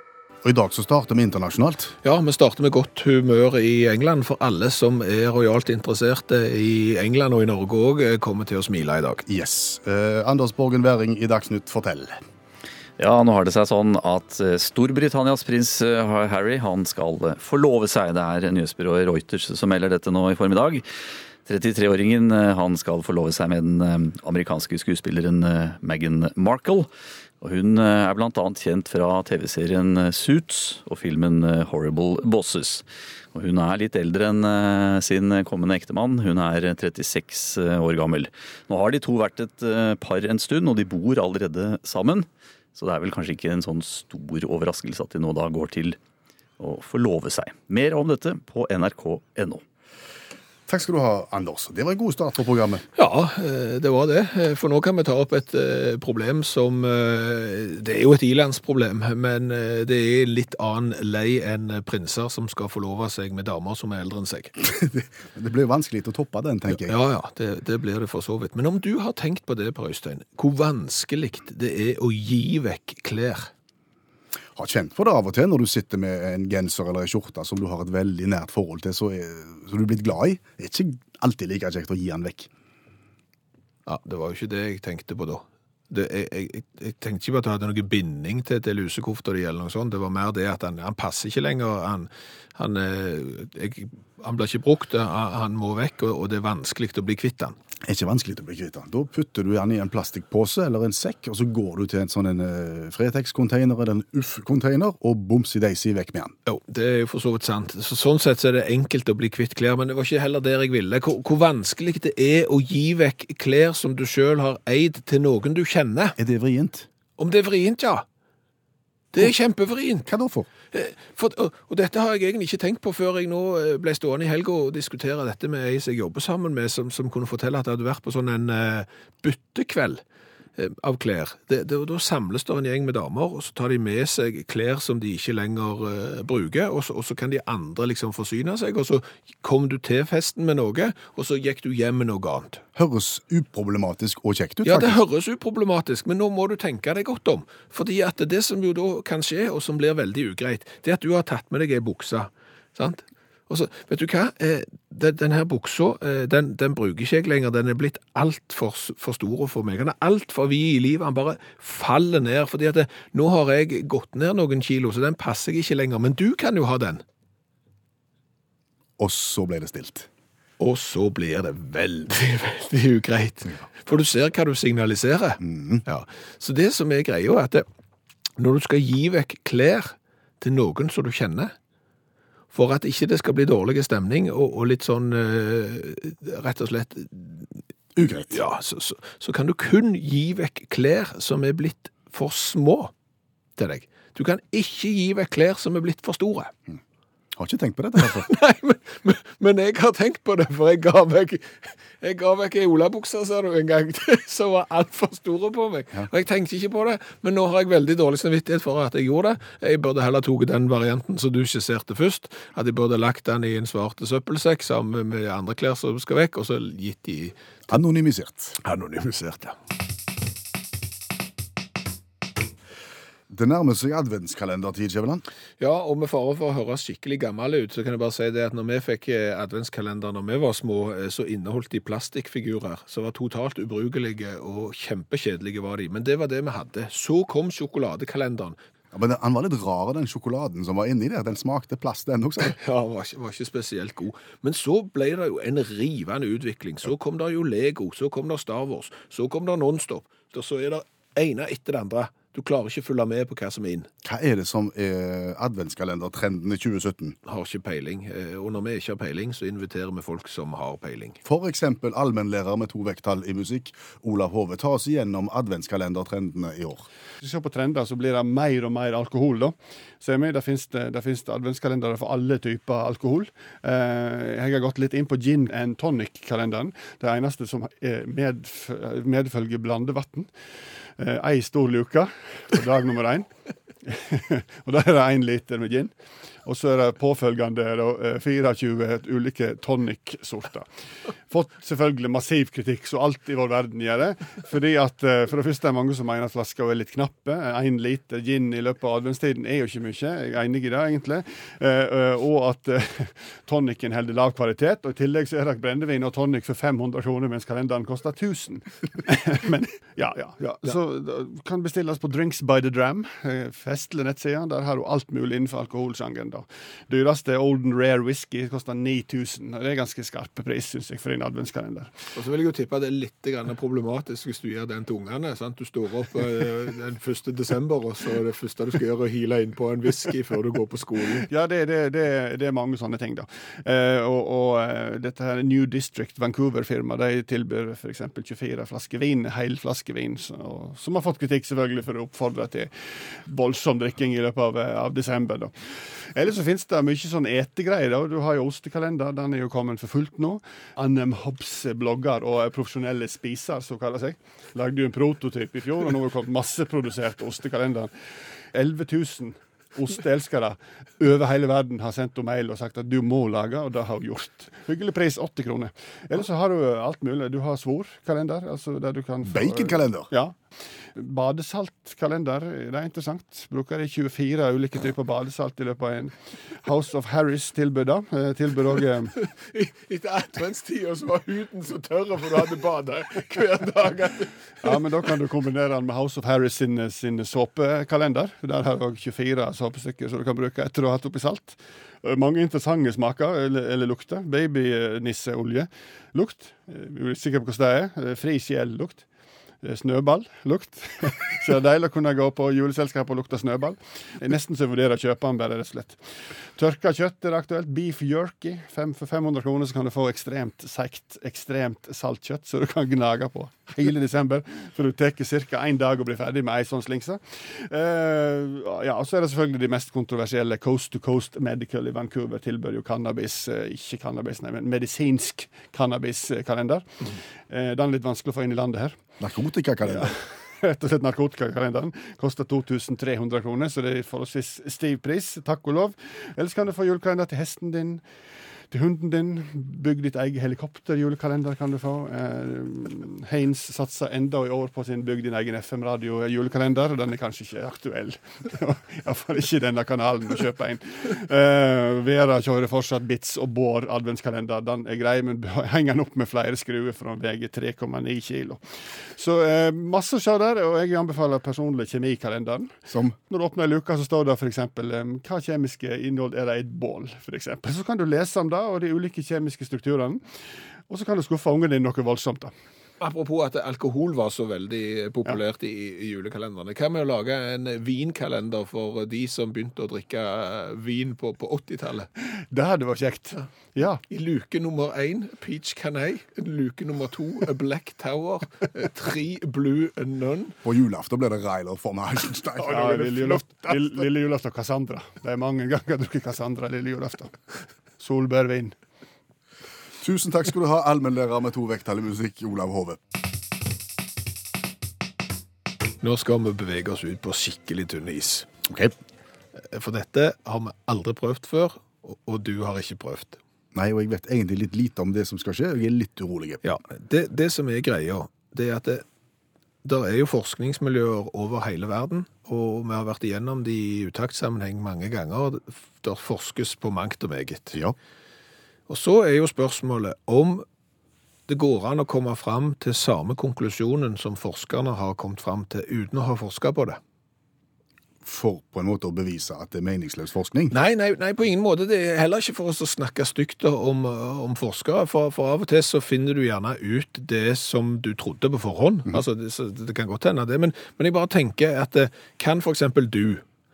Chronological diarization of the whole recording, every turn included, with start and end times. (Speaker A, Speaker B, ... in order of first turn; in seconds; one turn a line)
Speaker A: 0.4-1.9
Speaker B: 2.0-9.2
Speaker A: 9.2-12.2
Speaker C: 13.0-20.8
Speaker C: 21.4-26.9
Speaker C: 27.4-46.0
Speaker C: 46.6-49.6
Speaker A: 50.7-52.8
Speaker B: 53.0-64.5
Speaker A: 64.6-67.0
Speaker B: 66.7-73.5
Speaker A: 74.5-82.5
Speaker B: 83.8-97.5
Speaker A: 97.8-106.3
Speaker B: 106.5-116.2
Speaker A: 116.2-116.9
Speaker B: 117.2-118.0
Speaker B: 119.1-120.1
Speaker A: 120.0-120.5
Speaker B: 120.7-130.0
Speaker B: 130.6-142.6
Speaker A: 142.8-145.0
Speaker B: 144.6-167.0
Speaker A: 169.0-170.1
Speaker B: 170.6-177.6
Speaker A: 175.4-175.8
Speaker B: 178.4-181.5
Speaker B: 182.5-187.6
Speaker A: 187.9-188.4
Speaker B: 188.2-192.9
Speaker B: 193.6-196.5
Speaker A: 197.3-198.3
Speaker B: 198.0-217.3
Speaker A: 217.7-218.6
Speaker B: 218.6-219.5
Speaker A: 223.3-225.2
Speaker B: 225.6-238.6
Speaker A: 238.9-242.6
Speaker B: 242.4-253.9
Speaker A: 254.0-257.2
Speaker B: 257.3-261.2
Speaker A: 261.2-266.9
Speaker D: 267.2-280.3
Speaker D: 281.0-283.2
Speaker D: 283.8-285.9
Speaker D: 286.4-290.6
Speaker D: 291.3-321.9
Speaker B: 322.1-331.3
Speaker D: 331.3-357.9
Speaker D: 358.5-370.3
Speaker A: 369.2-370.1
Speaker D: 370.9-379.1
Speaker B: 379.1-384.8
Speaker D: 384.6-399.0
Speaker D: 399.6-429.0
Speaker A: 429.2-430.1
Speaker D: 429.9-438.0
Speaker D: 438.7-462.7
Speaker A: 462.9-463.1
Speaker D: 463.3-470.2
Speaker D: 470.9-472.5
Speaker B: 473.0-482.1
Speaker D: 482.5-484.0
Speaker B: 484.1-490.6
Speaker A: 490.6-493.4
Speaker D: 492.6-497.4
Speaker D: 498.0-498.7
Speaker A: 500.0-503.0
Speaker B: 506.0-508.5
Speaker A: 508.7-508.9
Speaker B: 509.6-513.4
Speaker A: 513.7-516.6
Speaker B: 516.6-519.0
Speaker B: 519.8-527.8
Speaker B: 528.9-530.6
Speaker B: 531.5-537.0
Speaker A: 538.2-540.7
Speaker B: 540.7-553.4